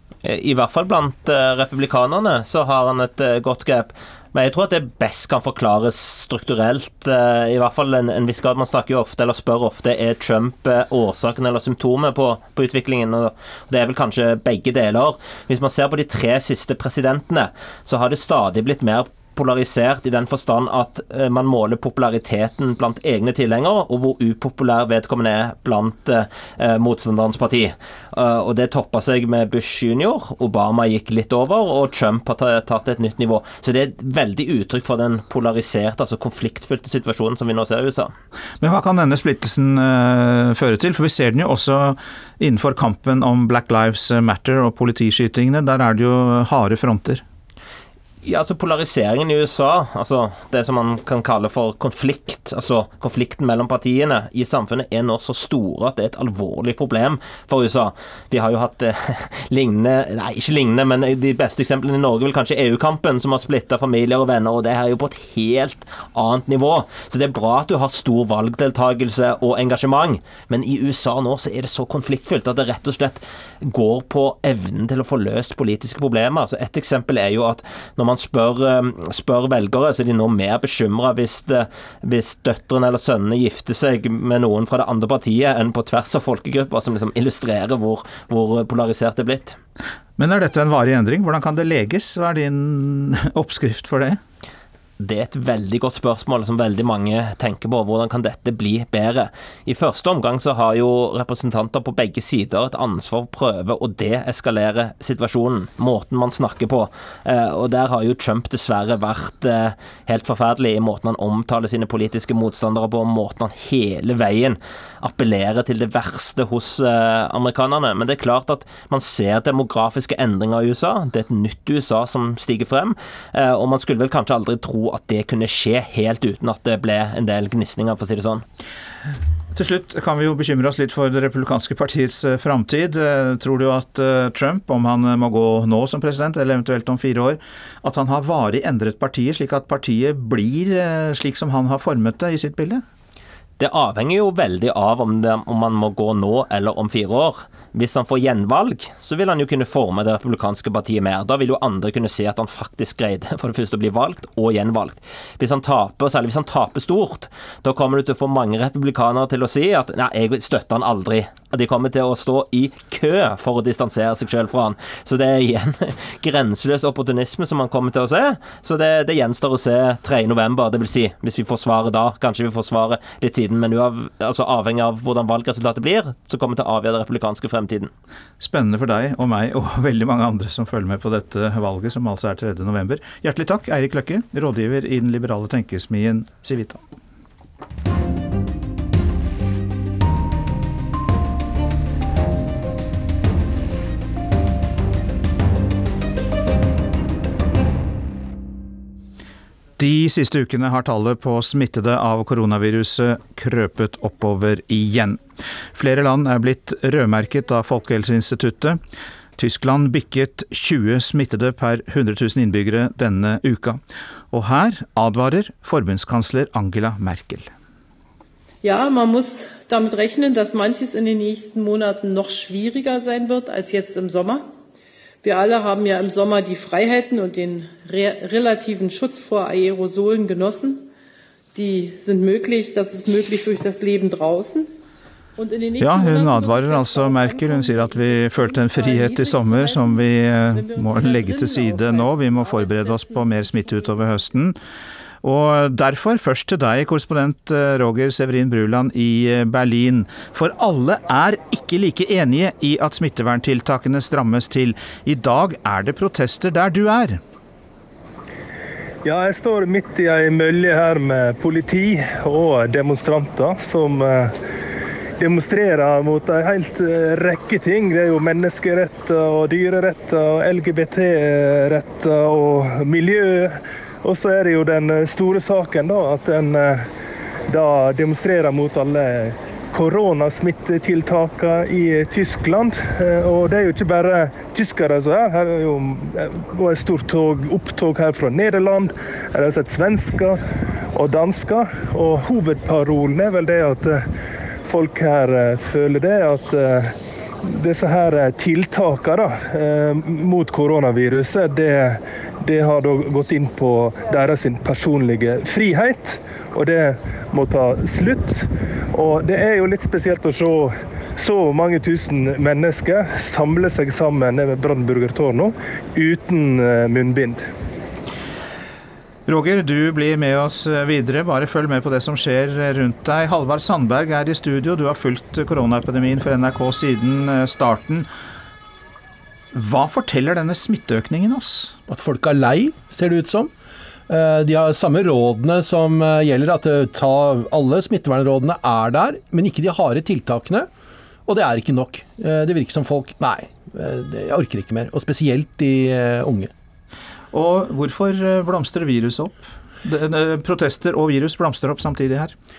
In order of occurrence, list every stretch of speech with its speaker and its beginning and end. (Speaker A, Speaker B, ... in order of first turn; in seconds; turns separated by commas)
Speaker A: 0.2-38.1, Speaker B: 38.6-47.2, Speaker A: 48.2-89.6, Speaker B: 90.2-94.2, Speaker A: 95.0-128.4, Speaker B: 129.5-142.8, Speaker A: 143.6-177.9, Speaker B: 178.4-186.8, Speaker B: 199.8-208.8, Speaker B: 209.4-217.5, Speaker C: 218.6-224.5, Speaker C: 225.2-230.9, Speaker C: 231.5-234.7, Speaker C: 235.4-244.0, Speaker B: 235.8-244.6, Speaker B: 245.2-257.2, Speaker D: 259.0-264.4, Speaker D: 265.2-276.9, Speaker D: 277.5-290.4, Speaker D: 290.9-294.1, Speaker D: 294.7-317.4, Speaker B: 319.3-328.1, Speaker B: 329.5-331.8, Speaker E: 331.9-333.5, Speaker E: 334.1-340.7, Speaker E: 341.3-346.5, Speaker B: 347.3-352.3